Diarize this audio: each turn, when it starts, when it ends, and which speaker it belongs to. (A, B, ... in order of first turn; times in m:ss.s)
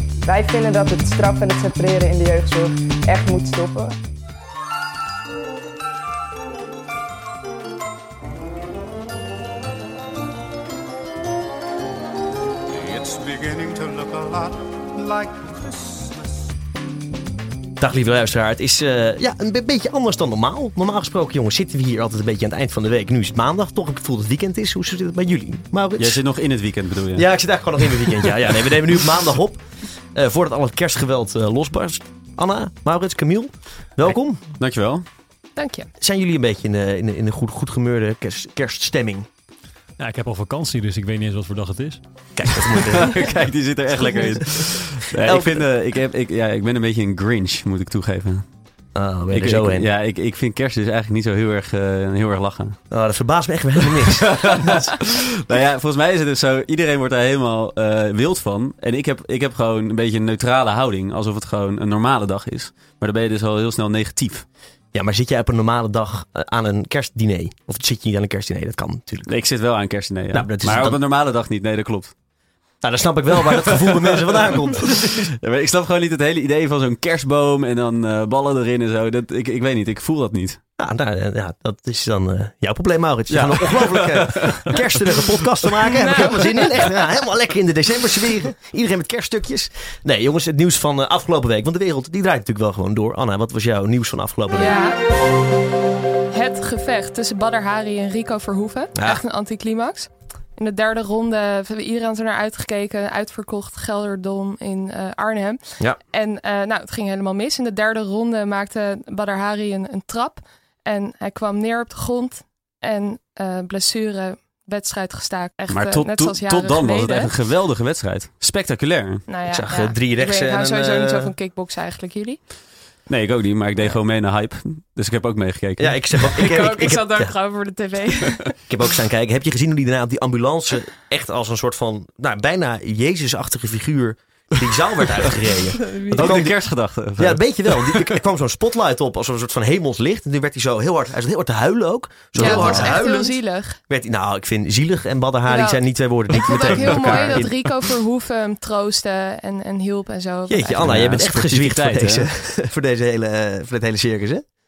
0:00.2-0:04.0 A
0:12.7-0:16.6 B
0:17.8-0:26.2 C
0:26.0-0:27.3 D
0:27.2-0:34.4 C
0:34.0-0:35.0 D
0:35.6-0:35.9 E
0:36.0-0:39.3 C
0:40.0-0:42.0 F
0:42.4-0:43.4 C
0:42.7-0:48.4 D
0:44.2-0:45.7 C
0:49.0-0:49.9 C
0:49.3-0:52.8 D
0:52.9-0:54.9 C
0:54.2-1:04.4 D
1:04.9-1:09.3 C
1:09.3-1:12.1 D
1:10.3-1:11.0 C
1:12.8-1:15.3 C
1:13.4-1:20.6 D
1:20.8-1:34.8 C
1:23.3-1:25.3 D
1:25.9-1:27.0 E
1:34.5-1:35.0 E
1:36.3-1:57.3 E
1:39.0-1:39.2 C
1:55.7-1:59.2 D
1:59.3-2:02.4 E
1:59.5-2:01.3 C
2:03.1-2:06.3 D
2:05.8-2:07.3 C
2:06.3-2:08.6 E
2:08.7-2:16.6 C
2:15.8-2:16.3 E
2:16.1-2:18.2 D
2:17.2-2:27.5 C
2:22.4-2:22.9 D
2:22.4-2:23.8 E
2:25.5-2:30.9 E
2:26.5-2:27.5 D
2:30.5-2:34.5 C
2:30.8-2:32.3 D